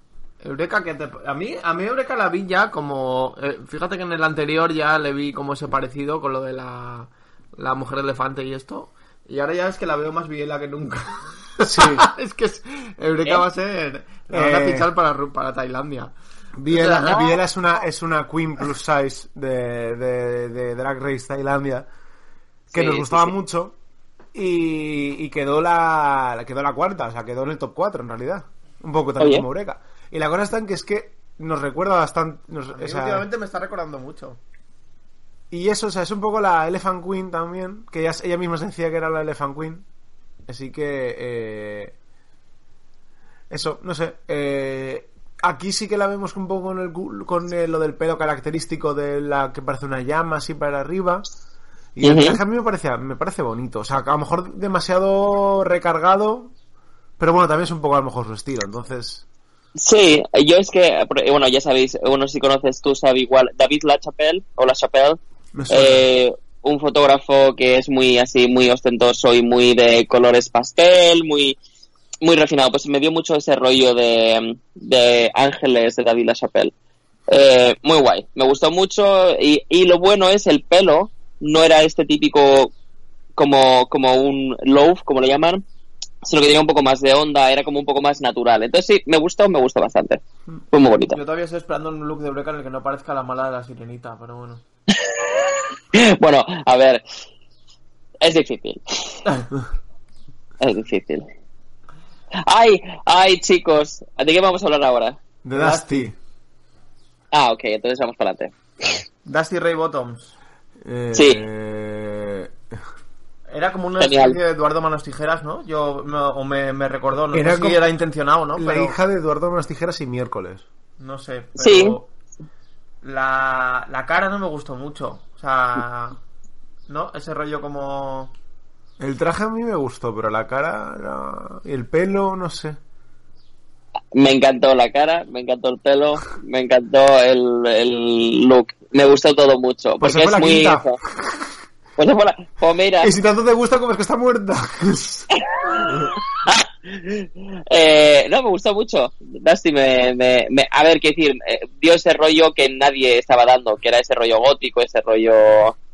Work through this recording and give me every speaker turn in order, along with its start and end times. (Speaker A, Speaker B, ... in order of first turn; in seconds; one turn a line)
Speaker A: 0.4-16.1
Speaker B: 11.6-12.1
Speaker B: 14.3-14.9
Speaker B: 16.6-21.9
Speaker A: 16.7-17.4
Speaker B: 22.7-23.8
Speaker C: 22.7-23.3
Speaker B: 24.3-33.2
Speaker C: 29.2-29.4
Speaker A: 32.7-34.4
Speaker B: 35.5-39.8
Speaker B: 40.5-41.9
Speaker B: 43.5-51.2
Speaker B: 52.0-56.5
Speaker C: 52.0-52.4
Speaker B: 57.2-59.2
Speaker C: 59.8-71.6
Speaker B: 65.5-66.1
Speaker C: 72.2-76.7
Speaker C: 77.3-82.7
Speaker C: 83.3-85.6
Speaker C: 86.2-91.2
Speaker A: 91.1-94.6
Speaker C: 94.9-97.0
Speaker C: 98.2-99.2
Speaker C: 100.6-101.2
Speaker C: 102.4-105.2
Speaker B: 105.4-106.2
Speaker A: 105.5-106.1
Speaker C: 107.3-109.0
Speaker A: 109.2-110.3
Speaker B: 110.8-112.5
Speaker C: 111.1-111.4
Speaker A: 113.5-119.0
Speaker C: 114.0-114.4
Speaker B: 117.3-117.9
Speaker B: 118.5-120.6
Speaker A: 121.0-122.1
Speaker C: 121.5-122.0
Speaker A: 123.0-126.2
Speaker A: 126.9-128.3
Speaker B: 129.0-132.8
Speaker C: 134.1-141.0
Speaker B: 140.0-141.5
Speaker C: 142.0-143.1
Speaker B: 143.0-145.3
Speaker C: 145.4-155.7
Speaker B: 145.8-146.1